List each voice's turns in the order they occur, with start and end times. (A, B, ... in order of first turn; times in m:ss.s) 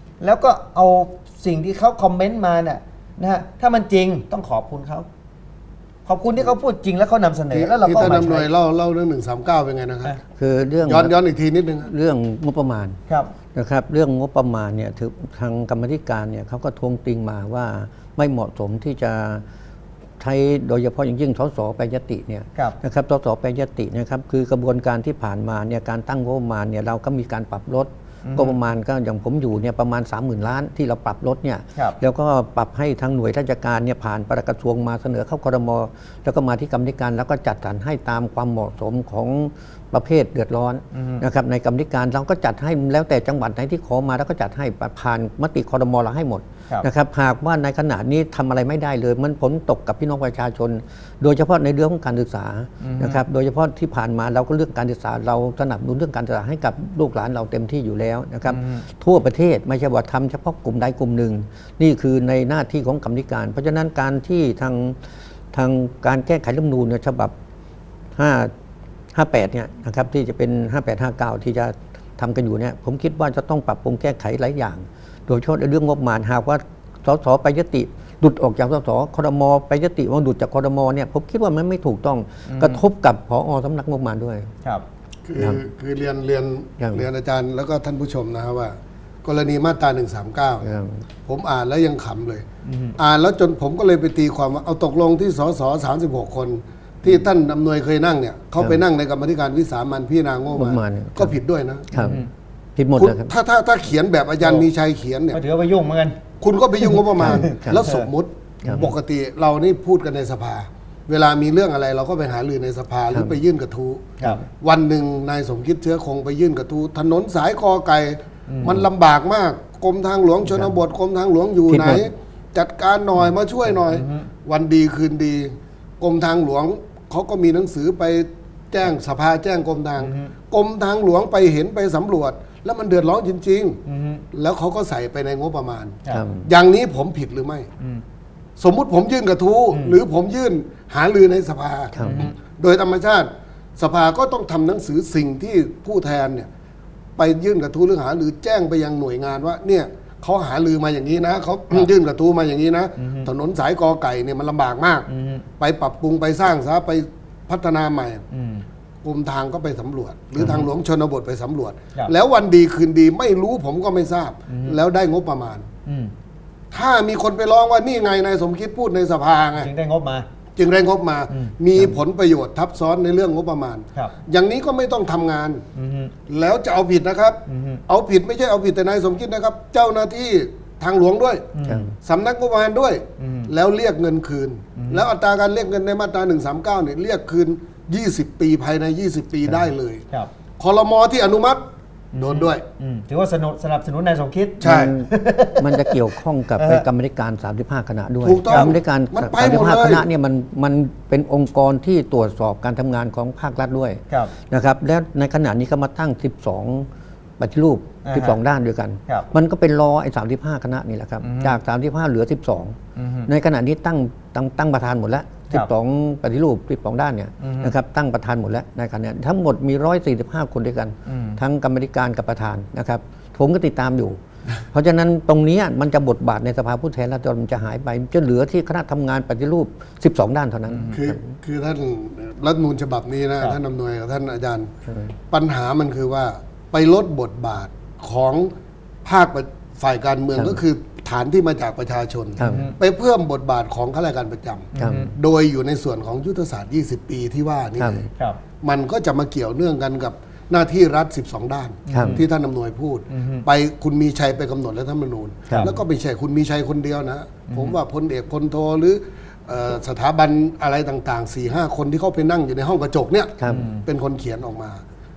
0:00.2-0:05.1 A
0:06.1-0:08.5 A
0:07.5-0:10.2 B
0:10.4-0:11.2 C
0:10.8-0:11.9 B
0:11.9-0:13.0 C
0:13.1-0:13.3 A
0:13.5-0:19.4 C
0:20.2-1:07.3 C
0:28.2-0:28.6 A
0:40.9-0:41.2 A
0:52.8-0:53.2 A
0:58.5-0:58.8 A
1:08.2-1:08.5 C
1:09.1-1:24.5 C
1:22.5-1:22.8 A
1:25.2-1:30.7 B
1:26.8-1:27.1 C
1:30.6-1:31.0 C
1:31.2-1:32.4 B
1:32.6-1:33.0 A
1:33.0-1:41.9 B
1:40.5-1:41.4 C
1:41.9-1:42.2 C
1:42.0-1:42.3 A
1:42.8-1:43.3 C
1:43.0-1:45.4 B
1:45.3-1:46.2 A
1:46.4-2:13.8 B
1:46.8-1:48.1 A
1:47.2-1:47.8 C
1:48.6-1:48.9 C
1:58.5-1:58.8 A
2:01.7-2:02.1 C
2:03.9-2:04.2 A
2:10.0-2:10.3 A
2:13.9-2:14.2 A
2:14.3-2:17.7 B
2:16.1-2:16.5 C
2:18.6-2:26.5 B
2:19.7-2:20.0 A
2:22.0-2:22.3 C
2:22.0-2:22.3 A
2:27.2-2:35.1 B
2:33.0-2:33.3 A
2:35.1-2:35.4 A
2:35.6-2:38.2 B
2:38.3-2:38.6 A
2:39.0-2:45.7 B
2:40.4-2:40.6 A
2:44.5-2:44.8 A
2:45.9-2:46.1 A
2:46.7-2:49.7 B
2:49.6-2:50.3 A
2:50.6-2:55.6 B
2:55.8-2:56.1 A
2:56.3-3:10.0 B
2:57.5-2:57.8 A
3:01.6-3:01.9 A
3:01.7-3:01.9 C
3:03.2-3:03.5 A
3:04.8-3:05.0 A
3:10.6-3:11.6 B
3:12.1-3:16.0 A
3:12.2-3:12.6 B
3:14.6-3:14.9 B
3:14.6-3:32.8 C
3:16.5-3:16.8 A
3:18.2-3:20.1 B
3:28.0-3:28.4 A
3:31.2-3:31.6 A
3:33.0-3:33.3 A
3:33.3-3:44.2 C
3:37.4-3:37.7 A
3:41.1-3:41.4 A
3:44.7-3:51.2 C
3:50.7-3:50.9 A
3:50.9-3:54.7 B
3:55.3-3:58.5 B
3:59.0-4:08.1 B
4:00.4-4:00.6 C
4:02.4-4:02.7 C
4:02.4-4:02.8 A
4:04.8-4:05.1 A
4:04.8-4:05.1 C
4:07.8-4:08.1 C
4:08.6-4:24.8 B
4:11.9-4:12.2 A
4:11.9-4:12.2 C
4:13.1-4:13.5 A
4:17.5-4:17.8 A
4:23.4-4:23.6 C
4:23.5-4:23.8 A